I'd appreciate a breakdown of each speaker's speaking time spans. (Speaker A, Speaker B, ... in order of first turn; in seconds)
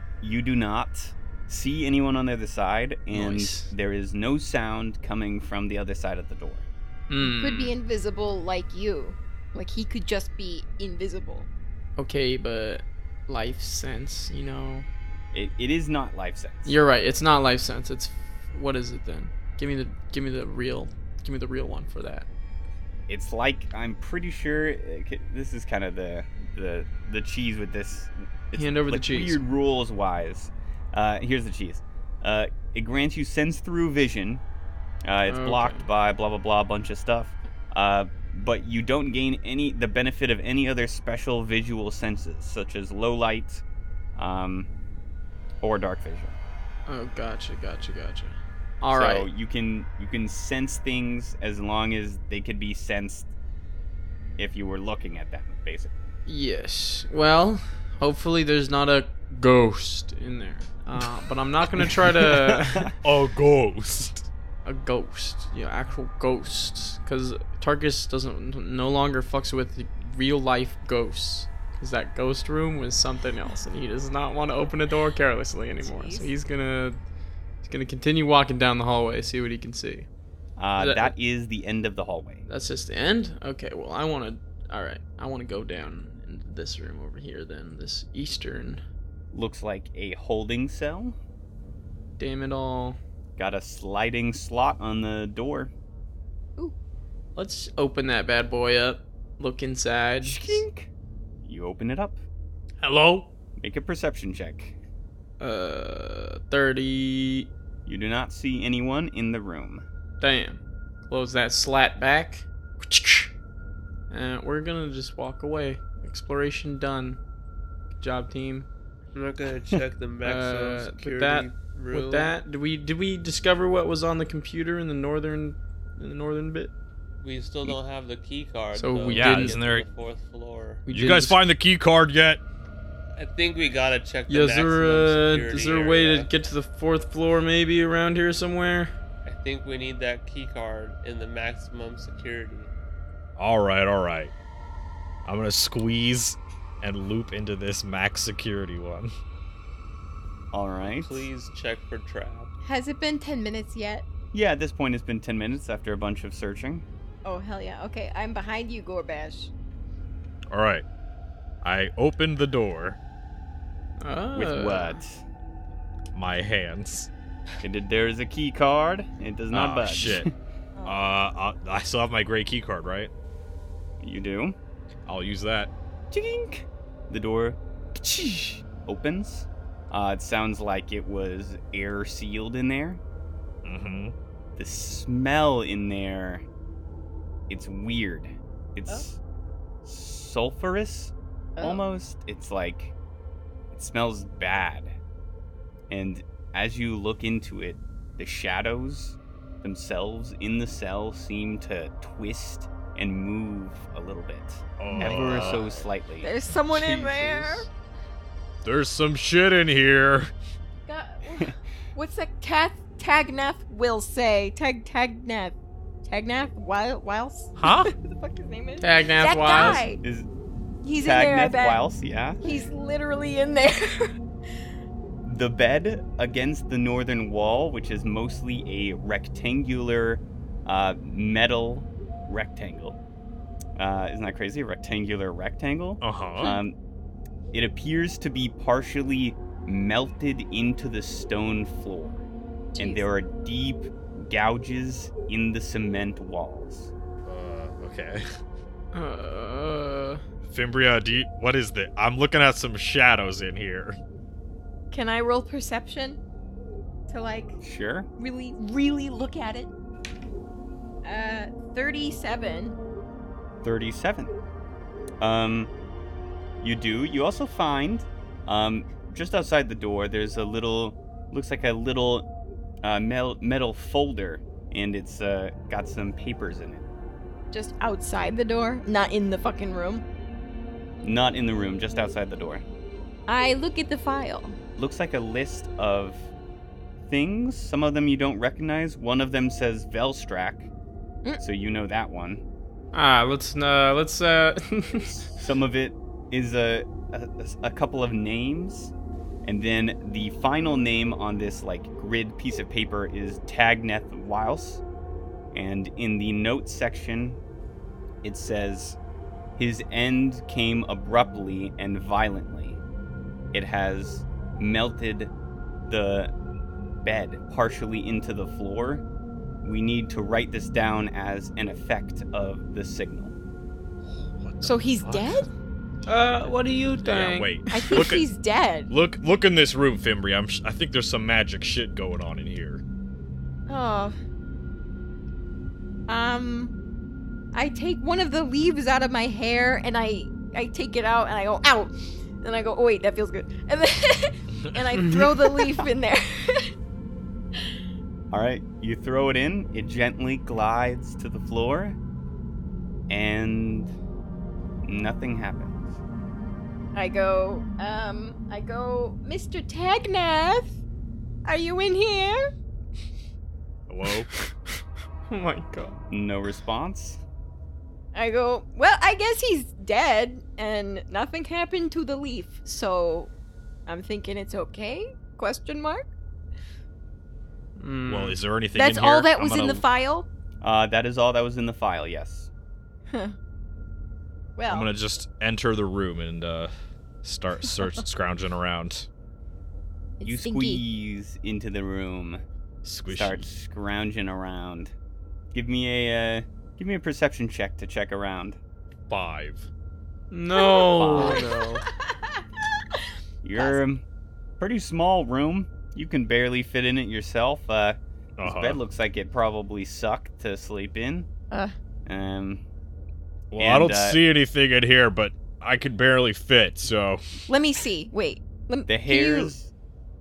Speaker A: 0.2-6.7, 15.3-16.8, 23.1-34.4, 35.0-43.6, 44.2-44.7, 45.6-46.4, 48.9-53.3, 54.4-55.9, 62.2-62.9, 80.6-82.5, 89.3-91.2, 93.4-95.7, 100.2-100.9, 101.4-102.2, 103.6-104.8, 107.9-109.8, 150.5-151.3, 154.3-156.8, 164.3-165.2, 167.6-170.3, 174.0-174.6, 176.1-183.0, 184.6-186.4, 187.5-189.2, 189.8-192.9, 193.7-194.9, 195.9-206.3, 219.7-220.3, 221.0-222.5, 225.2-233.0, 233.8-236.8, 237.5-242.2, 242.8-246.9, 257.6-258.1, 263.6-264.4, 265.2-265.7, 266.6-272.3, 272.8-276.9, 281.0-282.6, 284.8-286.3, 287.1-290.7, 291.4-292.4, 295.4-298.9, 299.4-304.8, 305.5-307.4, 308.2-309.0, 309.6-312.8, 313.5-315.3, 315.8-316.3, 317.0-319.0, 319.6-323.4, 348.3-352.0, 353.1-353.9, 354.8-356.0, 366.1-367.2, 380.6-382.5, 390.2-392.4, 393.1-394.9, 395.5-398.6, 400.9-401.5, 403.4-404.0, 404.6-411.3, 412.1-412.6, 413.6-414.2, 418.9-419.7
Speaker B: 3.1-3.7, 7.1-7.8, 12.0-14.9, 16.7-22.3, 28.6-29.4, 35.3-35.9, 46.9-49.3, 56.3-62.9, 64.7-77.0, 77.6-80.1, 80.8-81.1, 82.5-88.8, 92.2-93.0, 97.4-100.6, 102.8-103.3, 105.4-107.5, 110.2-113.3, 114.1-117.2, 118.0-118.7, 120.2-126.7, 128.8-129.6, 130.9-131.4, 134.3-138.9, 164.0-165.0, 218.8-219.8, 248.9-250.2, 292.9-295.2, 326.1-327.9, 364.4-366.0, 377.8-378.4, 400.3-401.5
Speaker C: 7.2-11.5, 75.8-76.3, 152.6-154.1, 157.2-159.5, 170.8-171.1, 204.9-207.7, 210.9-220.0, 220.8-221.8, 222.4-224.1, 236.4-236.6, 242.7-243.1, 254.9-256.2, 257.1-257.6, 258.2-259.7, 261.0-262.8, 277.5-280.1, 283.3-284.6, 324.6-325.5, 327.7-328.9, 333.7-334.2, 336.1-336.8, 337.5-346.7, 356.9-360.8, 361.4-362.5, 368.1-373.3, 373.9-376.1, 378.7-380.3, 383.1-383.4, 384.6-384.9, 390.2-390.8, 400.6-402.4, 417.5-419.5
Speaker D: 63.0-64.3, 102.8-103.1, 129.1-129.9, 130.9-132.4, 143.4-144.3, 145.2-149.1, 160.5-160.8, 161.6-163.0, 166.1-167.1, 169.5-170.3, 170.8-173.1, 175.1-175.7, 183.6-184.1, 204.8-205.6, 208.6-210.3, 217.6-217.9, 236.0-236.5, 247.2-248.2, 250.4-254.0, 324.0-325.4, 327.0-328.2, 328.9-332.8, 363.9-364.3, 378.1-379.8, 384.7-386.7, 387.2-389.1, 392.8-393.5, 399.1-399.7, 408.4-408.8, 413.5-417.2
Speaker E: 119.1-122.3, 127.2-130.8, 133.2-136.3, 139.2-142.7, 150.9-152.5, 206.7-207.7, 401.2-401.8